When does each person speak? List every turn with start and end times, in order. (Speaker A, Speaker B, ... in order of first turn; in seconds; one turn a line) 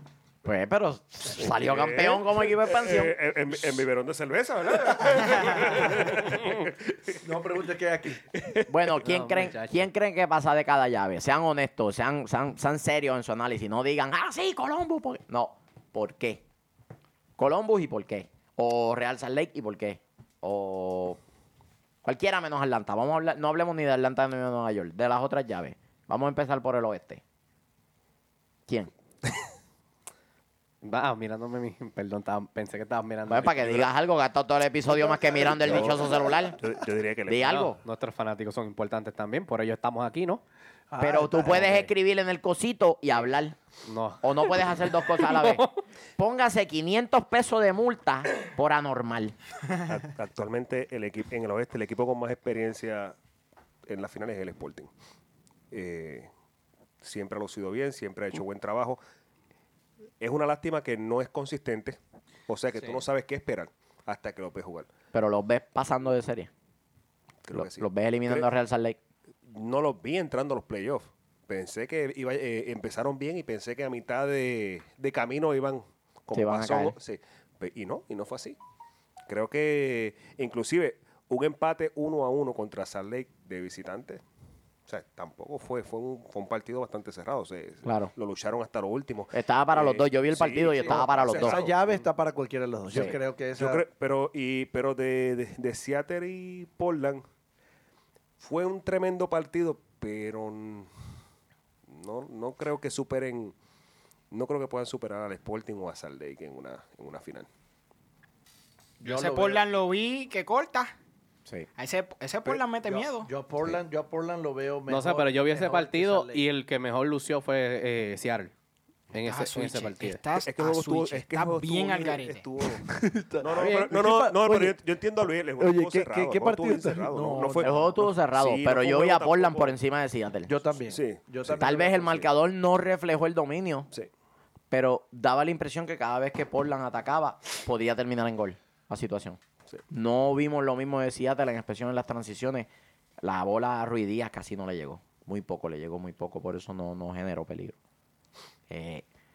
Speaker A: 0.4-3.1
Speaker B: 1.4-7.2
Speaker C: 7.2-8.2
Speaker B: 8.3-8.7
Speaker A: 8.7-16.4
Speaker D: 9.0-9.9
Speaker A: 17.4-21.2
Speaker A: 22.0-27.2
Speaker A: 28.7-28.9
Speaker D: 30.8-33.9
Speaker A: 33.3-36.6
Speaker C: 34.9-36.1
Speaker B: 35.7-35.9
Speaker B: 36.6-37.6
Speaker A: 37.3-37.8
Speaker D: 37.4-40.4
Speaker C: 40.9-41.9
Speaker A: 41.0-43.5
Speaker D: 43.9-45.7
Speaker A: 44.2-45.6
Speaker A: 46.2-49.3
Speaker B: 49.8-53.1
Speaker B: 53.9-54.9
Speaker B: 55.7-56.3
Speaker B: 57.0-59.0
Speaker B: 60.2-64.9
Speaker A: 65.1-66.5
Speaker B: 67.4-68.5
Speaker A: 67.5-69.0
Speaker B: 69.5-78.6
Speaker A: 76.3-76.9
Speaker B: 79.3-84.2
Speaker B: 84.9-92.0
Speaker A: 87.8-88.1
Speaker A: 89.3-91.6
Speaker C: 90.8-93.8
Speaker B: 93.6-97.2
Speaker B: 98.4-100.9
Speaker B: 101.9-103.5
Speaker B: 104.3-107.5
Speaker E: 109.0-110.9
Speaker C: 109.0-109.6
Speaker E: 111.8-113.3
Speaker C: 112.5-116.5
Speaker D: 114.9-118.5
Speaker D: 119.1-120.2
Speaker E: 119.2-122.5
Speaker B: 120.4-122.9
Speaker C: 122.8-124.8
Speaker B: 123.4-129.7
Speaker D: 123.5-123.9
Speaker C: 125.6-127.8
Speaker A: 127.6-130.5
Speaker C: 130.5-132.0
Speaker B: 130.8-132.2
Speaker A: 131.6-133.9
Speaker A: 134.7-142.7
Speaker A: 143.2-147.7
Speaker A: 148.7-149.0